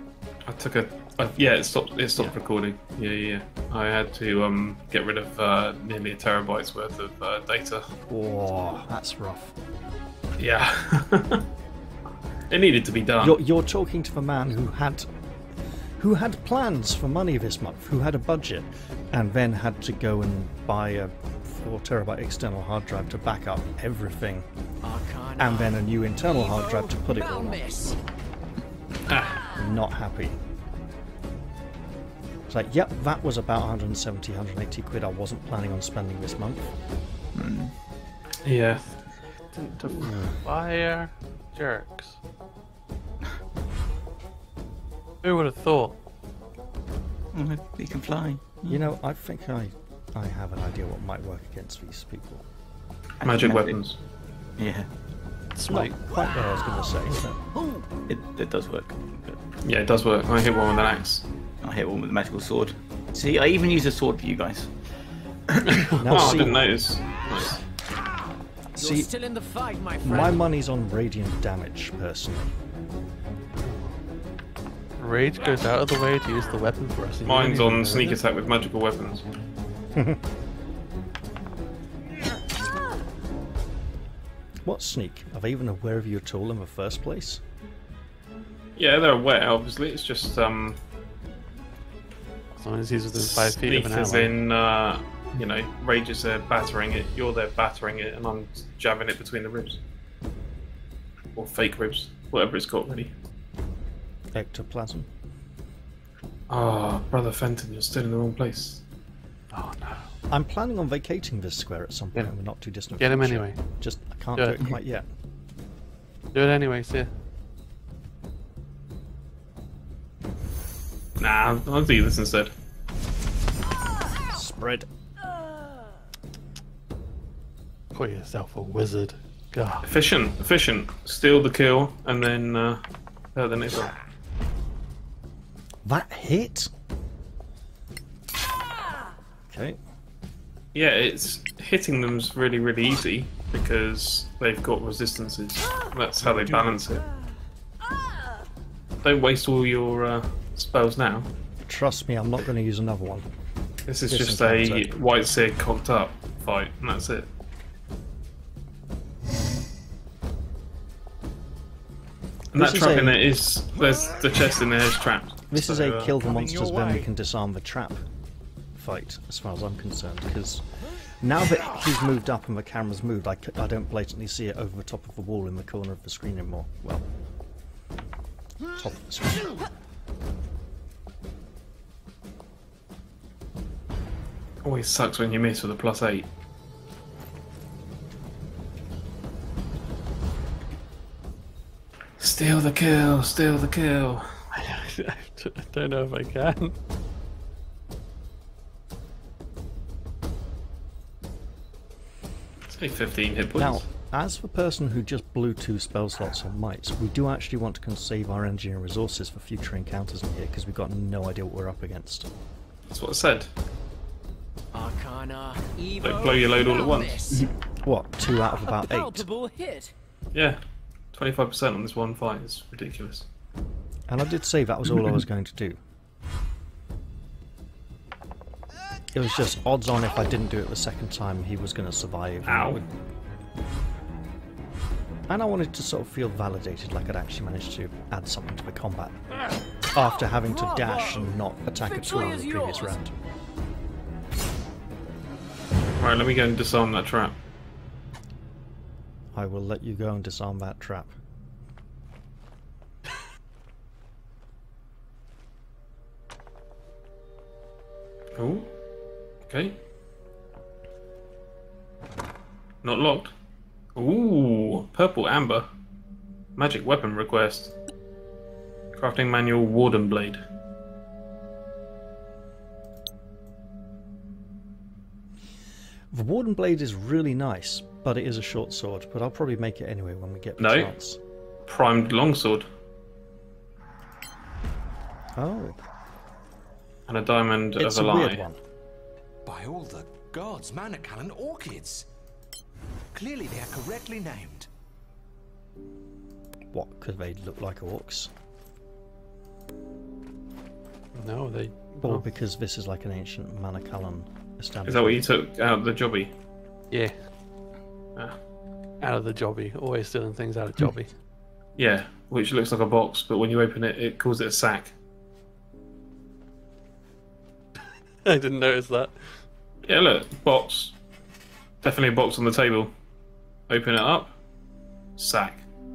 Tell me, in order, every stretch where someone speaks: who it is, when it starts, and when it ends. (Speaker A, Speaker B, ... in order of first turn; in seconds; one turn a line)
Speaker A: 0.5-7.9
Speaker B: 8.1-9.6
Speaker A: 10.4-11.4
Speaker A: 12.5-13.4
Speaker B: 13.2-15.1
Speaker B: 16.0-24.4
Speaker C: 24.8-28.0
Speaker B: 25.4-27.7
Speaker A: 29.1-29.4
Speaker B: 29.5-30.4
Speaker B: 32.5-36.7
Speaker D: 37.3-37.7
Speaker A: 38.4-38.9
Speaker E: 39.5-42.2
Speaker B: 39.9-40.4
Speaker E: 45.2-46.0
Speaker D: 47.3-48.8
Speaker B: 48.7-52.5
Speaker D: 53.2-53.8
Speaker A: 53.2-54.0
Speaker D: 54.6-54.9
Speaker E: 55.5-55.9
Speaker B: 55.7-57.4
Speaker D: 58.1-59.4
Speaker A: 59.6-61.2
Speaker D: 61.6-64.7
Speaker E: 65.6-66.5
Speaker B: 66.0-66.7
Speaker A: 66.0-67.6
Speaker C: 68.7-70.4
Speaker B: 68.8-69.1
Speaker B: 70.0-72.5
Speaker E: 73.6-74.0
Speaker E: 75.0-78.2
Speaker A: 77.2-79.2
Speaker B: 79.9-80.2
Speaker B: 84.6-87.4
Speaker A: 88.8-90.8
Speaker E: 92.5-94.3
Speaker A: 93.1-99.8
Speaker A: 101.3-103.1
Speaker B: 104.3-105.1
Speaker A: 106.5-108.8
Speaker E: 109.5-110.1
Speaker B: 110.3-115.1
Speaker E: 113.0-113.6
Speaker E: 114.3-114.6
Speaker E: 116.3-117.1
Speaker A: 121.2-122.5
Speaker B: 124.3-124.9
Speaker E: 127.9-129.9
Speaker A: 129.8-132.8
Speaker A: 133.3-133.9
Speaker B: 135.8-136.7
Speaker B: 139.5-139.8
Speaker A: 140.7-147.1
Speaker A: 149.0-151.3
Speaker B: 151.6-153.3
Speaker A: 153.9-157.3
Speaker B: 154.1-154.9
Speaker A: 162.5-166.2
Speaker B: 162.5-163.2
Speaker B: 165.5-168.0
Speaker F: 166.2-166.9
Speaker B: 168.7-170.7
Speaker B: 171.2-177.1
Speaker B: 178.7-179.6
Speaker A: 184.6-186.3
Speaker A: 192.2-194.3
Speaker E: 194.5-196.7
Speaker A: 202.7-203.8
Speaker B: 203.6-212.3
Speaker A: 212.9-213.5
Speaker C: 214.7-217.5
Speaker A: 216.0-217.3
Speaker B: 217.8-219.3
Speaker C: 218.6-219.9
Speaker A: 220.3-220.6
Speaker A: 221.1-223.2
Speaker B: 224.1-225.8
Speaker B: 229.1-232.9
Speaker A: 232.4-232.8
Speaker B: 235.3-239.2
Speaker B: 239.9-243.1
Speaker C: 240.4-243.0
Speaker A: 246.0-247.3
Speaker B: 249.3-251.1
Speaker A: 258.4-258.7
Speaker A: 259.4-259.8
Speaker A: 262.8-263.3
Speaker A: 263.9-265.7
Speaker A: 266.6-267.7
Speaker A: 268.9-270.4
Speaker B: 276.1-281.2
Speaker A: 280.6-280.9
Speaker A: 281.7-282.6
Speaker B: 285.4-285.8
Speaker A: 287.1-288.4
Speaker B: 287.8-288.6
Speaker F: 289.4-292.1
Speaker F: 293.1-294.7
Speaker B: 296.7-298.3
Speaker E: 301.1-302.2
Speaker B: 302.0-305.2
Speaker A: 304.8-306.3
Speaker E: 306.9-307.1
Speaker E: 309.0-311.1
Speaker A: 311.8-314.9
Speaker E: 318.2-319.4
Speaker A: 319.9-320.9
Speaker A: 321.8-322.9
Speaker A: 323.7-324.3
Speaker A: 325.2-325.6